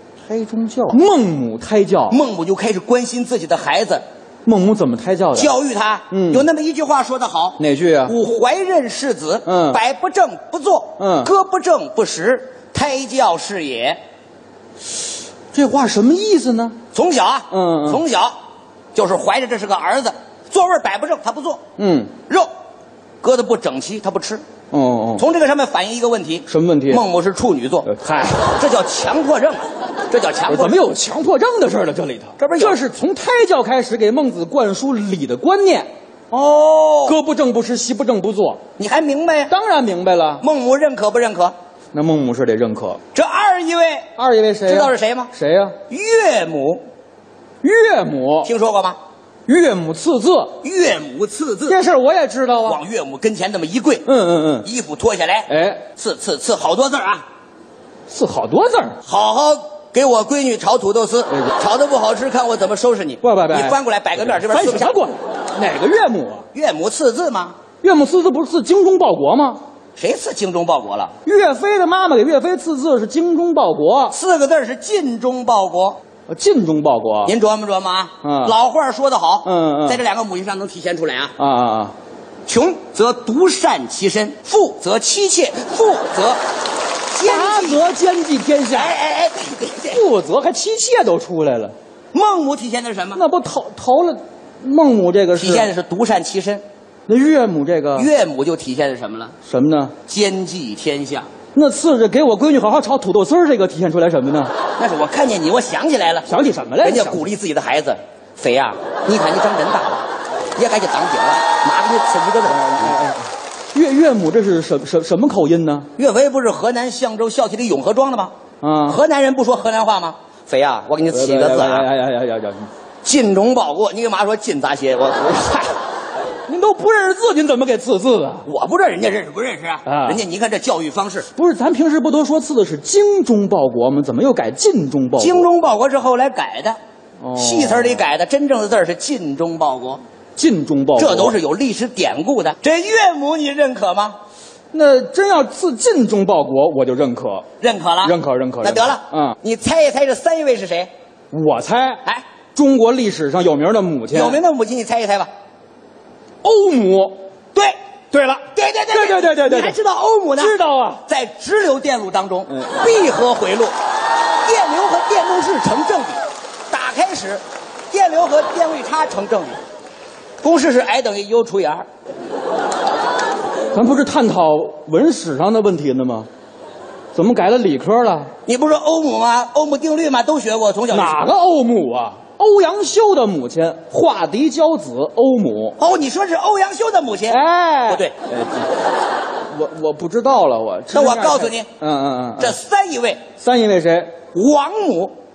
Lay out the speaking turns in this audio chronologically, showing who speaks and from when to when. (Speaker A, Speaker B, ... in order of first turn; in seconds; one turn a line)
Speaker A: 0.3-2.2
Speaker B: 2.1-4.0
Speaker A: 4.4-5.5
Speaker B: 5.3-14.0
Speaker A: 6.1-6.5
Speaker A: 7.6-8.1
Speaker A: 9.4-9.8
Speaker A: 11.0-11.3
Speaker A: 15.5-16.8
Speaker B: 16.9-18.4
Speaker A: 17.5-18.0
Speaker B: 18.9-21.6
Speaker A: 21.8-22.1
Speaker B: 23.2-24.4
Speaker A: 24.7-25.2
Speaker B: 25.1-27.9
Speaker A: 26.5-27.0
Speaker A: 27.8-28.5
Speaker B: 28.4-30.8
Speaker A: 30.5-35.9
Speaker B: 32.4-32.8
Speaker B: 36.3-37.2
Speaker A: 37.0-38.6
Speaker B: 38.8-39.5
Speaker A: 39.5-40.4
Speaker B: 40.4-41.5
Speaker A: 41.9-43.0
Speaker B: 43.1-44.1
Speaker A: 44.1-45.8
Speaker B: 44.6-45.3
Speaker B: 45.9-46.8
Speaker A: 47.6-48.5
Speaker B: 48.4-49.0
Speaker A: 49.5-50.6
Speaker B: 50.6-51.8
Speaker A: 51.6-52.8
Speaker B: 52.6-54.1
Speaker A: 54.0-54.7
Speaker B: 54.6-57.2
Speaker A: 55.5-55.9
Speaker A: 58.1-59.0
Speaker B: 59.0-65.0
Speaker A: 63.2-66.5
Speaker B: 66.5-67.6
Speaker A: 67.8-69.6
Speaker B: 70.0-71.1
Speaker A: 71.2-74.2
Speaker B: 74.1-76.0
Speaker A: 76.3-77.3
Speaker B: 77.2-81.3
Speaker A: 78.2-78.5
Speaker A: 79.4-80.0
Speaker A: 81.4-81.9
Speaker B: 82.5-86.4
Speaker B: 87.1-87.9
Speaker A: 87.2-89.0
Speaker B: 88.7-90.0
Speaker A: 89.9-91.7
Speaker B: 92.1-93.2
Speaker A: 93.1-95.7
Speaker B: 95.3-96.6
Speaker A: 97.1-98.1
Speaker B: 97.9-99.3
Speaker A: 99.4-99.9
Speaker B: 100.1-101.3
Speaker A: 101.5-104.5
Speaker B: 104.8-113.0
Speaker A: 106.2-107.2
Speaker A: 112.5-115.9
Speaker B: 116.0-118.3
Speaker A: 118.6-119.0
Speaker B: 118.8-121.9
Speaker A: 121.1-122.7
Speaker B: 123.0-125.7
Speaker A: 126.5-128.5
Speaker B: 128.4-131.3
Speaker A: 129.8-130.2
Speaker A: 131.3-135.5
Speaker B: 135.2-136.8
Speaker A: 137.2-138.0
Speaker B: 137.3-140.0
Speaker A: 140.3-141.3
Speaker B: 141.0-144.2
Speaker A: 144.7-147.4
Speaker B: 147.6-150.9
Speaker A: 148.0-149.3
Speaker A: 151.3-152.0
Speaker A: 152.5-154.4
Speaker B: 154.1-155.3
Speaker A: 156.4-157.2
Speaker A: 158.1-159.8
Speaker B: 158.5-163.7
Speaker A: 160.4-161.0
Speaker A: 162.5-162.8
Speaker B: 164.4-169.6
Speaker B: 170.4-171.8
Speaker A: 173.7-176.3
Speaker A: 177.1-178.3
Speaker B: 178.4-181.2
Speaker A: 180.9-185.8
Speaker B: 185.8-188.1
Speaker A: 187.3-188.7
Speaker A: 189.4-192.6
Speaker B: 190.9-191.7
Speaker B: 192.4-193.2
Speaker A: 193.3-194.2
Speaker B: 194.3-195.1